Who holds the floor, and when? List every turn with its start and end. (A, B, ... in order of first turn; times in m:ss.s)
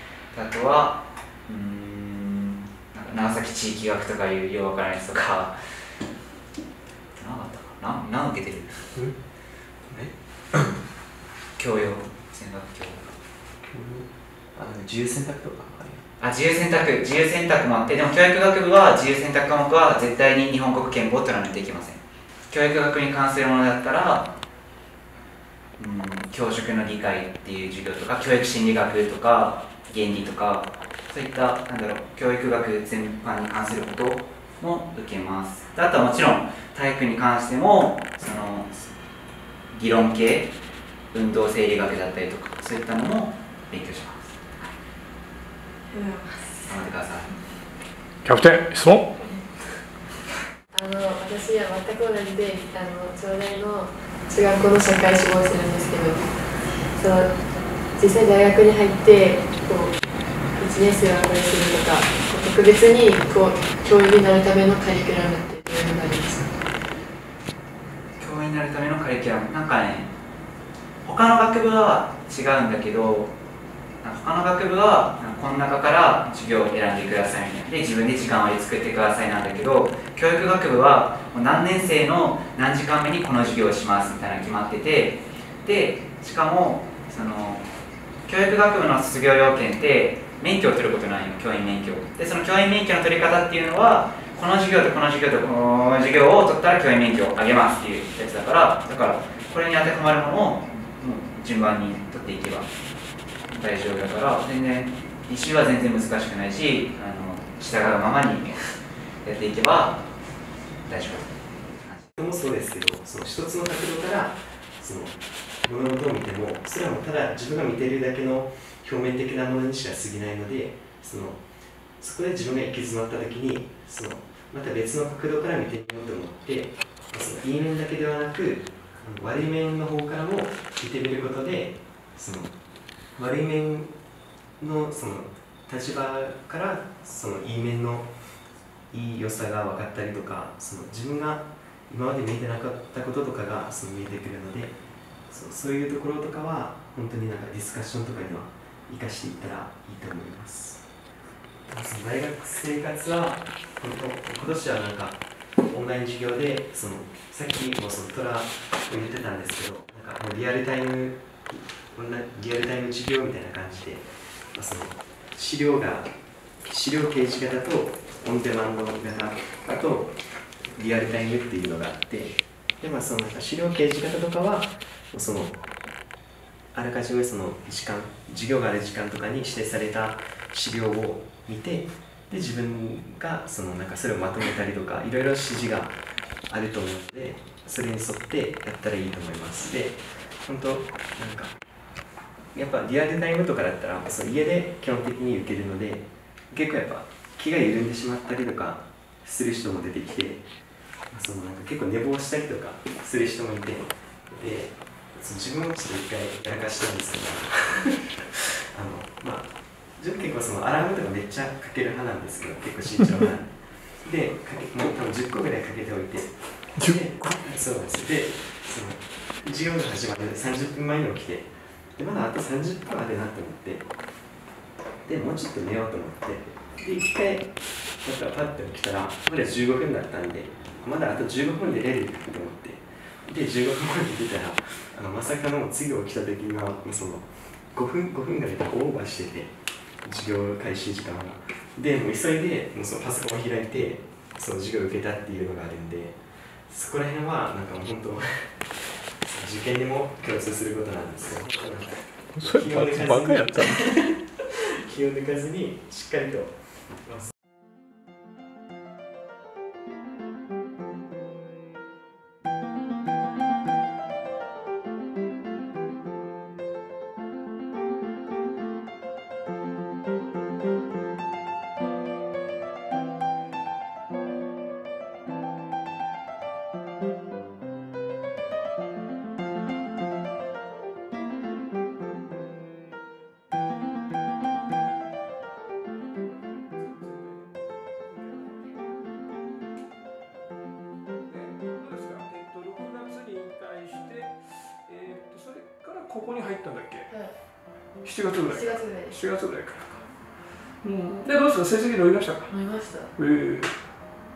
0:00.3-0:05.6 A
0:07.1-0:08.9 A
0:09.9-0:10.8 B
0:11.6-0:13.1 A
0:13.7-0:16.0 B
0:16.2-0:24.3 A
0:25.8-0:38.9 A
0:39.7-0:40.5 A
0:41.1-0:44.5 A
0:45.9-0:46.8 C
0:46.7-0:47.3 A
0:48.2-0:49.1 D
0:50.7-0:57.3 C
0:58.0-0:59.9 C
1:00.5-1:06.6 C
1:08.2-1:10.1 A
1:11.0-1:13.3 A
1:14.0-1:27.6 A
1:28.3-1:42.7 A
1:43.5-1:48.7 A
1:49.2-1:50.0 A
1:50.9-1:52.1 A
1:52.2-2:01.4 B
2:02.0-2:12.5 B
2:13.2-2:13.9 B
2:14.6-2:18.1 B
2:18.9-2:24.8 B
2:25.3-2:30.8 B
2:31.7-2:35.2 B
2:35.7-2:46.1 B
2:46.7-2:50.2 B
2:50.7-2:55.6 B
2:56.7-3:06.0 B
3:06.5-3:11.5 B
3:12.5-3:20.4 B
3:21.1-3:43.9 B
3:45.0-3:47.5 B
3:48.0-3:59.5 B
4:00.0-4:16.5 B
4:12.4-4:13.8 D
4:46.2-4:47.5 D
4:48.1-4:48.8 D
4:51.3-4:57.1 D
4:58.0-5:00.1 D
4:58.4-4:59.2 C
5:00.8-5:02.5 D
5:02.5-5:03.1 C
5:03.2-5:03.7 D